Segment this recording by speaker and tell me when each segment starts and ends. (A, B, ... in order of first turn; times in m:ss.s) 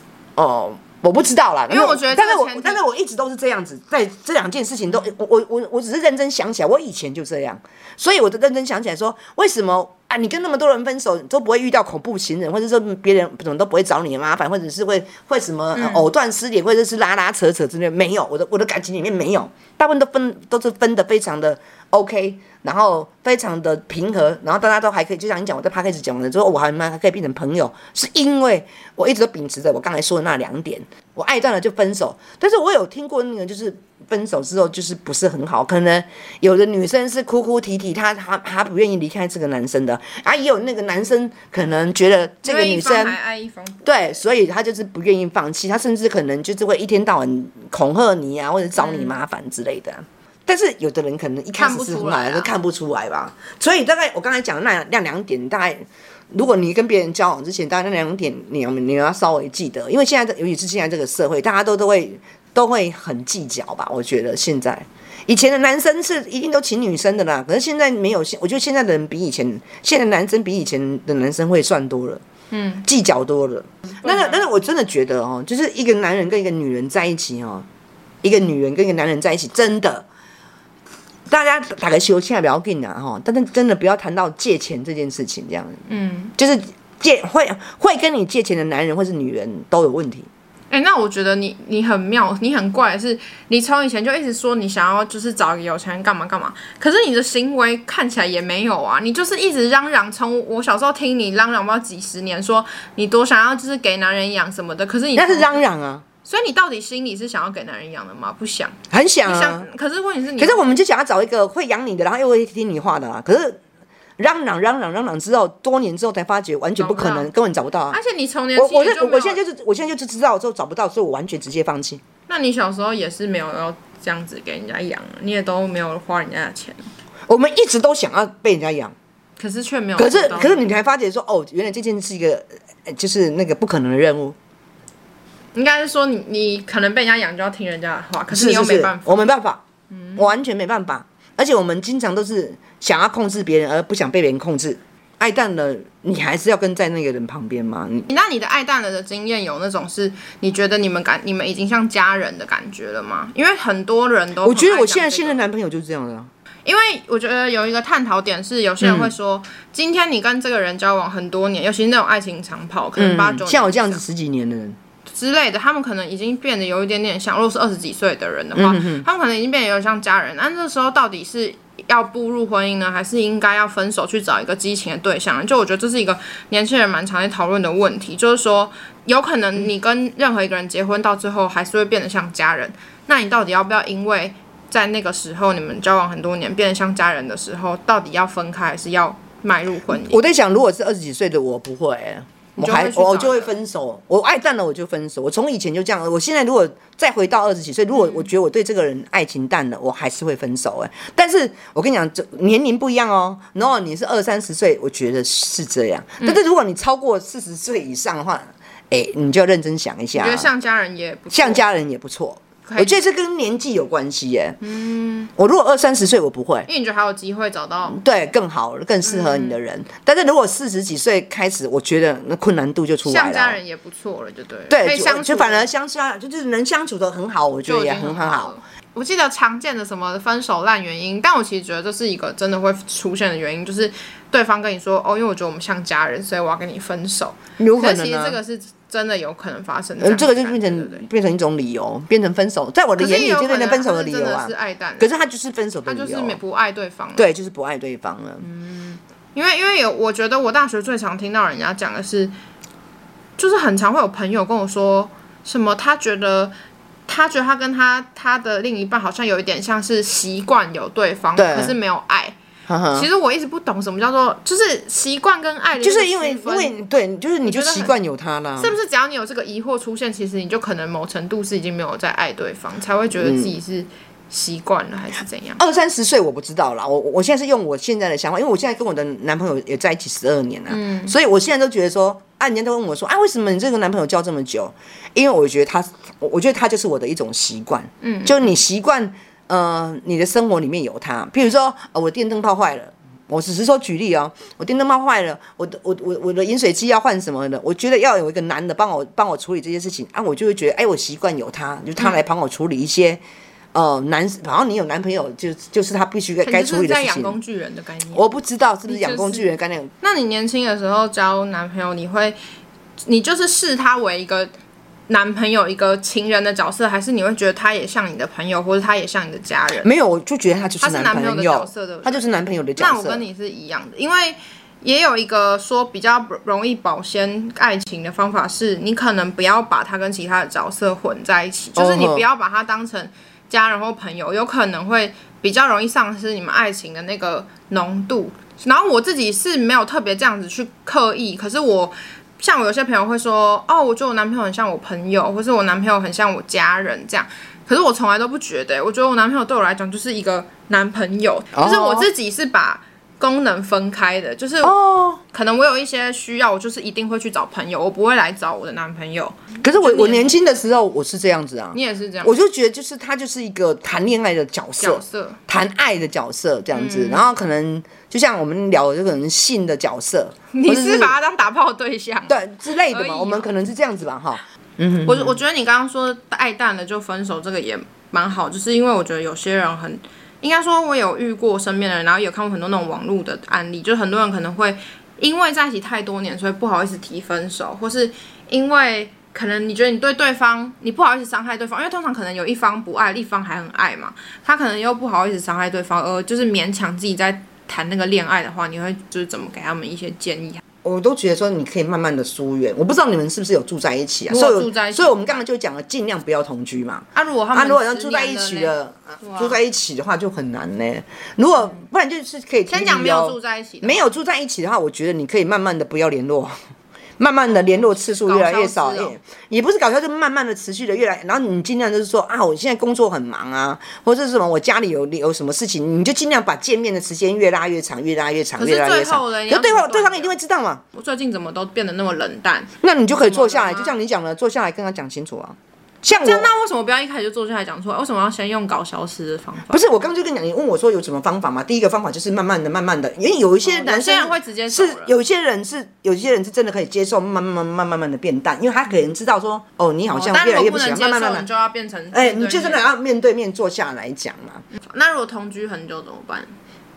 0:00.4-0:43.2 A
0:01.7-0:02.8 B
0:15.8-0:16.1 B
0:42.4-0:44.1 B
0:43.8-1:12.2 A
0:48.8-0:49.1 B
0:51.6-0:52.5 B
1:12.5-1:12.9 B
1:12.8-1:17.7 A
1:14.0-1:14.4 B
1:18.2-1:20.1 A
1:21.3-1:25.8 A
1:25.9-1:26.3 B
1:26.4-1:30.3 A
1:30.7-1:45.6 B
1:45.2-1:46.0 A
1:46.2-1:50.6 B
1:48.9-1:49.7 A
1:50.4-1:53.6 A
1:54.2-1:58.0 A
1:56.8-1:57.3 B
1:57.9-1:59.4 B
1:58.6-2:02.0 A
2:02.3-2:06.9 B
2:07.3-2:08.9 A
2:09.4-2:10.6 B
2:10.0-2:14.4 A
2:15.5-2:19.2 B
2:18.3-2:19.6 A
2:19.9-2:20.3 B
2:20.2-2:28.1 A
2:28.1-2:35.4 B
2:34.4-2:36.3 A
2:36.6-2:44.0 B
2:38.8-2:39.1 A
2:43.0-2:44.8 A
2:45.1-3:10.2 B
2:48.6-2:49.0 A
3:09.9-3:30.5 A
3:12.6-3:13.5 B
3:17.9-3:18.3 B
3:30.2-3:31.6 B
3:31.3-3:34.6 A
3:32.7-3:32.9 B
3:34.6-3:35.3 B
3:35.4-3:36.7 A
3:36.7-3:38.0 B
3:37.9-3:43.6 A
3:39.0-3:39.6 B
3:43.0-3:45.7 B
3:44.7-3:48.5 A
3:47.7-4:01.1 B
3:57.6-3:58.4 A
4:00.0-4:06.4 A
4:03.0-4:05.1 B
4:05.9-4:07.3 B
4:07.2-4:08.4 A
4:08.4-4:12.3 B
4:13.4-4:16.5 B
4:17.1-4:22.4 B
4:21.4-4:21.8 A
4:22.7-4:23.1 A
4:22.9-4:26.8 B
4:25.8-4:28.8 A
4:27.4-4:27.9 B
4:28.6-4:35.6 B
4:33.1-4:33.5 A
4:35.6-5:03.2 A
4:40.7-4:41.1 B
4:48.0-4:48.5 B
5:03.7-5:07.4 A
5:06.4-5:08.3 B
5:08.1-5:09.9 A
5:08.9-5:09.5 B
5:10.0-5:12.4 B
5:13.1-5:14.5 B
5:15.1-5:19.9 B
5:19.8-5:23.2 A
5:20.8-5:22.2 B
5:22.8-5:54.8 B
5:31.8-5:32.2 A
5:51.5-5:52.1 A
5:54.6-5:55.2 A
5:55.3-6:00.3 B
5:59.6-6:11.2 A
6:01.7-6:02.4 B
6:04.8-6:05.4 B
6:06.7-6:07.3 B
6:10.5-6:13.5 B
6:12.3-6:15.4 A
6:15.1-6:40.6 B
6:40.8-6:56.5 A
6:44.3-6:45.4 B
6:47.2-6:49.6 B
6:52.7-6:54.0 B
6:57.2-7:10.8 A
6:58.0-6:59.2 B
7:08.6-7:10.3 B
7:10.9-7:13.9 B
7:12.8-7:16.5 A
7:16.1-7:19.8 B
7:19.7-7:31.5 A
7:23.6-7:25.1 B
7:30.1-7:32.9 B
7:32.1-7:34.6 A
7:34.9-7:36.5 B